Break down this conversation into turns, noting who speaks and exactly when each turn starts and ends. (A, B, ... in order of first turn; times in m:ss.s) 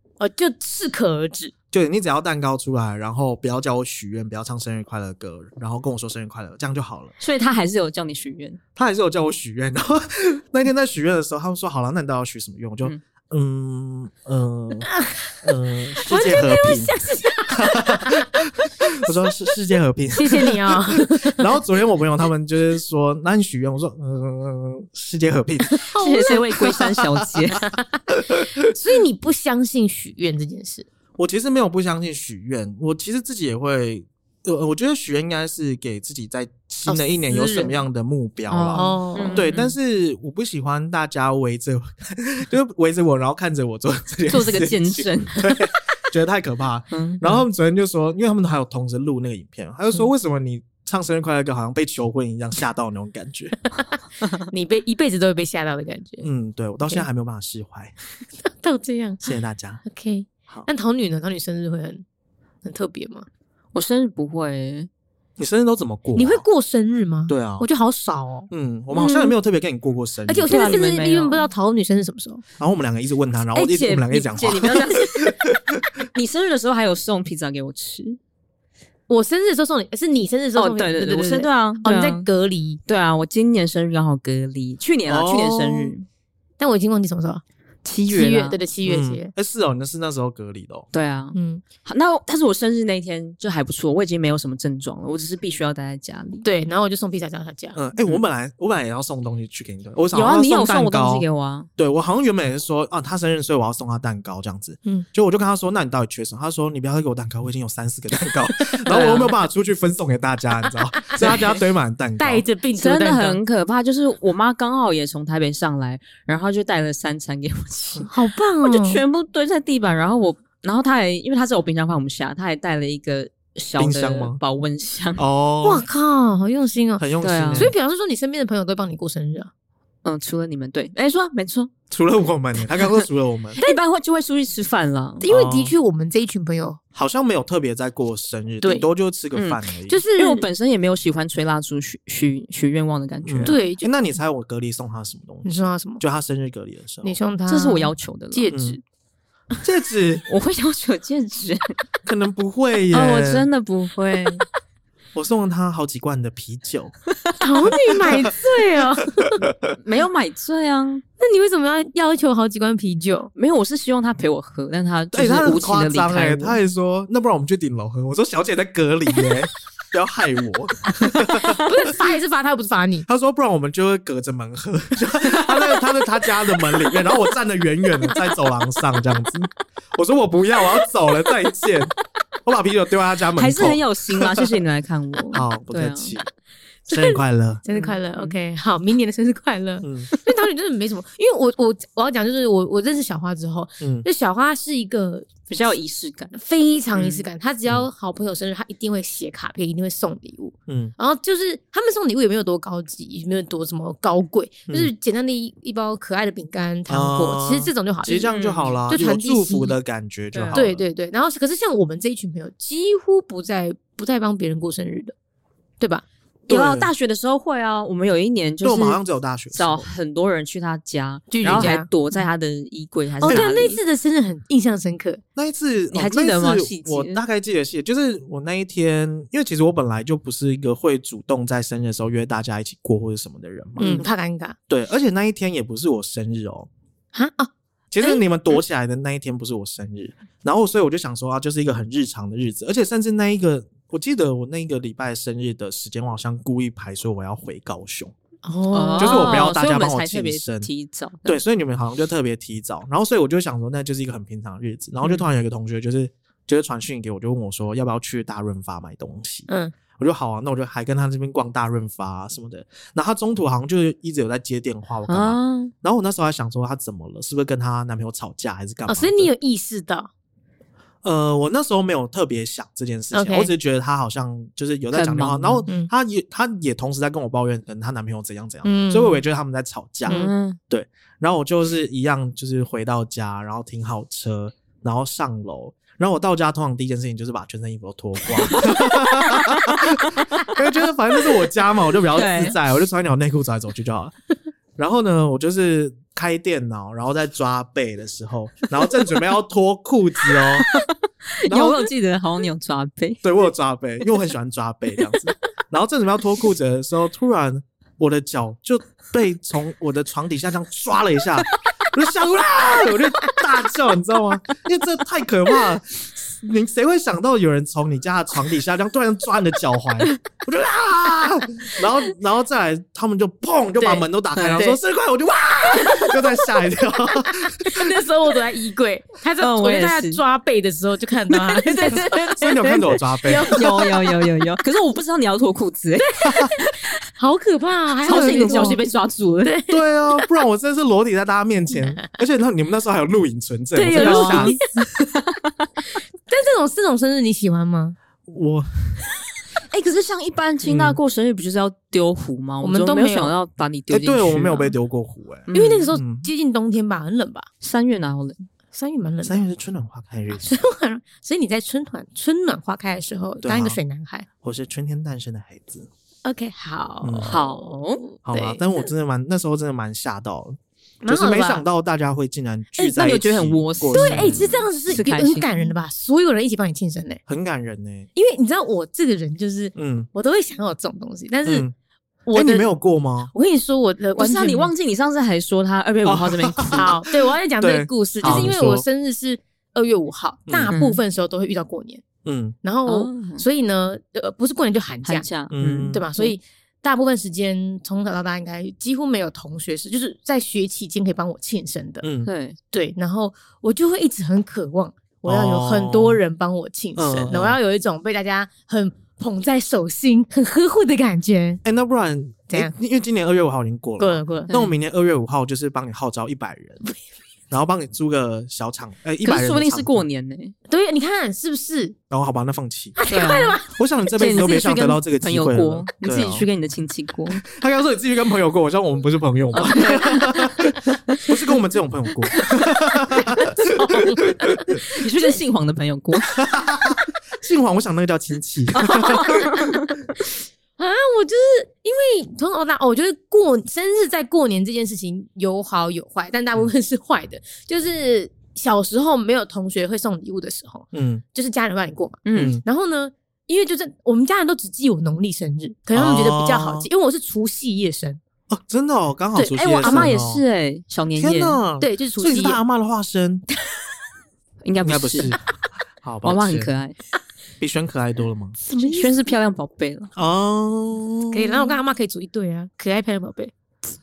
0:00.2-0:01.5 A
0:01.7-0:07.1 B
0:07.2-0:08.6 C
0:08.8-0:16.9 B
0:14.8-0:15.3 A
0:16.0-0:18.5 A
0:17.5-0:27.4 B
0:20.2-0:21.5 A
0:25.7-0:26.8 A
0:26.0-0:27.7 C
0:27.6-0:30.9 A
0:28.2-0:28.6 B
0:31.2-0:53.6 B
0:36.9-0:37.7 A
0:38.5-0:39.8 C
0:38.7-0:39.5 A
0:44.3-0:45.6 C
0:46.9-0:47.4 C
0:54.5-0:56.3 A
0:56.2-0:57.9 B
0:58.4-0:59.3 A
0:59.2-0:59.8 B
0:59.9-1:02.0 A
1:02.6-1:03.3 A
1:03.7-1:04.9 C
1:05.4-1:06.4 B
1:06.2-1:09.3 A
1:07.3-1:07.7 B
1:08.5-1:10.8 B
1:10.3-1:12.4 A
1:10.5-1:11.5 C
1:12.6-1:15.8 B
1:13.5-1:15.4 C
1:16.1-1:18.2 C
1:19.1-1:22.8 A
1:20.6-1:22.3 C
1:22.9-1:26.1 C
1:25.1-1:25.9 B
1:26.6-1:27.4 A
1:27.8-1:28.6 C
1:28.1-1:29.3 A
1:28.8-1:30.9 B
1:30.9-1:36.5 C
1:31.3-1:31.6 A
1:36.4-1:37.8 A
1:37.8-1:41.3 B
1:40.1-1:41.7 C
1:41.8-1:52.4 B
1:48.9-1:49.3 C
1:52.2-1:53.4 A
1:52.8-1:58.1 C
1:58.1-1:59.0 A
1:58.6-2:05.2 C
2:03.8-2:04.4 B
2:05.2-2:05.8 B
2:05.6-2:09.5 A
2:07.0-2:07.7 B
2:07.2-2:07.7 C
2:10.0-2:11.7 C
2:11.9-2:13.6 B
2:13.6-2:15.2 C
2:15.2-2:16.8 A
2:15.3-2:15.7 B
2:17.0-2:20.0 B
2:19.3-2:19.6 C
2:19.9-2:20.4 A
2:20.2-2:23.6 C
2:23.2-2:27.2 B
2:23.4-2:23.9 A
2:25.4-2:26.0 A
2:27.0-2:28.8 A
2:27.5-2:28.5 C
2:28.5-2:28.8 B
2:29.6-2:30.3 B
2:30.3-2:31.8 C
2:32.0-2:33.5 B
2:32.9-2:34.4 C
2:35.1-2:36.9 B
2:37.4-2:39.4 A
2:37.6-2:38.8 B
2:39.4-2:39.8 B
2:39.8-2:41.0 C
2:41.2-2:43.3 A
2:43.4-2:46.6 C
2:45.1-2:51.9 B
2:51.3-2:53.1 A
2:53.1-3:01.9 B
3:02.4-3:04.6 B
3:03.4-3:06.2 C
3:05.3-3:06.3 B
3:06.9-3:15.4 A
3:06.9-3:07.6 B
3:07.7-3:08.4 C
3:09.8-3:10.1 B
3:13.8-3:14.1 B
3:15.5-3:16.4 C
3:16.3-3:28.3 A
3:17.0-3:17.2 C
3:20.7-3:20.9 B
3:26.9-3:30.8 B
3:28.2-3:28.8 C
3:28.9-3:29.8 A
3:30.3-3:30.6 C
3:30.5-3:35.1 A
3:35.8-3:36.1 A
3:36.5-3:39.0 C
3:36.5-3:36.9 B
3:38.6-3:39.9 B
3:39.5-3:43.8 C
3:41.3-3:41.9 A
3:43.2-3:45.2 A
3:43.2-3:43.5 B
3:45.4-3:54.0 B
3:45.9-3:47.2 C
3:53.8-3:54.6 A
3:54.7-3:56.7 B
3:57.1-3:57.5 A
3:57.9-4:08.1 B
4:08.4-4:09.4 A
4:08.7-4:11.4 C
4:09.0-4:10.7 B
4:11.2-4:29.3 B
4:19.5-4:19.7 A
4:25.1-4:25.7 C
4:28.9-4:30.1 A
4:31.0-4:54.1 B
4:33.1-4:33.5 A
4:34.9-4:35.7 C
4:38.6-4:39.2 A
4:40.1-4:40.3 A
4:40.1-4:40.6 C
4:48.4-4:50.5 C
4:52.1-4:52.6 C
4:54.8-5:00.7 B
5:00.6-5:00.9 C
5:01.4-5:03.2 C
5:01.5-5:01.8 B
5:03.2-5:27.9 B
5:23.8-5:24.8 A
5:24.4-5:24.6 C
5:27.5-5:34.1 A
5:29.4-5:30.2 C
5:31.3-5:36.9 C
5:31.9-5:33.6 B
5:36.2-5:36.5 B
5:37.2-5:38.8 A
5:38.0-5:38.8 B
5:38.0-5:39.6 C
5:39.4-5:39.8 A
5:39.7-5:44.6 B
5:43.8-5:44.6 A
5:43.9-5:44.6 C
5:46.3-5:48.0 A
5:48.3-5:49.0 B
5:49.7-5:54.8 C
5:50.6-5:51.0 B
5:52.6-5:53.3 A
5:53.9-5:56.3 B
5:55.5-5:55.9 C
5:55.5-5:57.5 A
5:57.6-5:58.5 C
5:58.7-5:59.4 A
5:59.2-6:00.6 B
6:00.3-6:04.3 A
6:03.4-6:03.8 B
6:04.4-6:05.9 B
6:06.2-6:08.6 A
6:07.0-6:07.4 B
6:07.3-6:08.0 C
6:08.2-6:14.6 B
6:11.0-6:11.6 A
6:12.8-6:15.7 C
6:13.9-6:17.2 A
6:17.3-6:18.1 B
6:18.2-6:21.7 A
6:19.8-6:20.1 B
6:21.4-6:21.7 B
6:22.3-6:22.7 A
6:22.3-6:23.3 B
6:23.3-6:24.7 A
6:24.2-6:26.9 C
6:26.0-6:27.0 B
6:26.7-6:32.0 A
6:27.6-6:28.8 B
6:28.2-6:28.5 C
6:30.5-6:30.7 B
6:30.7-6:31.0 C
6:32.2-6:32.6 B
6:32.6-6:35.3 A
6:32.9-6:33.4 C
6:35.0-6:36.3 C
6:35.5-6:36.0 B
6:35.9-6:42.1 A
6:42.0-6:42.3 B
6:42.2-6:42.6 C
6:42.7-6:51.6 A
6:45.2-6:46.2 B
6:47.0-6:47.6 B
6:51.6-6:56.8 B
6:54.0-6:54.5 A
6:54.5-6:54.8 C
6:57.5-7:00.0 B
6:59.2-7:00.6 C
7:00.7-7:02.0 A
7:02.1-7:03.0 B
7:03.0-7:03.7 A
7:03.1-7:03.6 C
7:03.7-7:06.5 B
7:04.1-7:07.4 C
7:07.4-7:14.8 B
7:09.5-7:11.3 C
7:13.4-7:15.4 A
7:14.8-7:16.4 C
7:16.4-7:19.5 B
7:18.8-7:19.9 C
7:18.9-7:19.7 A
7:20.8-7:38.2 A
7:30.9-7:31.2 B
7:32.2-7:32.6 C
7:32.3-7:32.6 B
7:35.9-7:36.9 B
7:38.5-7:40.4 B
7:39.4-7:40.2 A
7:39.5-7:41.6 C
7:41.2-7:43.4 B
7:41.8-7:42.6 A
7:44.6-7:45.4 C
7:44.8-7:45.4 B
7:46.0-7:46.7 B
7:46.2-7:47.0 C
7:47.6-7:48.6 B
7:48.6-7:49.3 A
7:48.8-7:50.1 C
7:50.2-7:51.8 B
7:51.3-7:53.5 A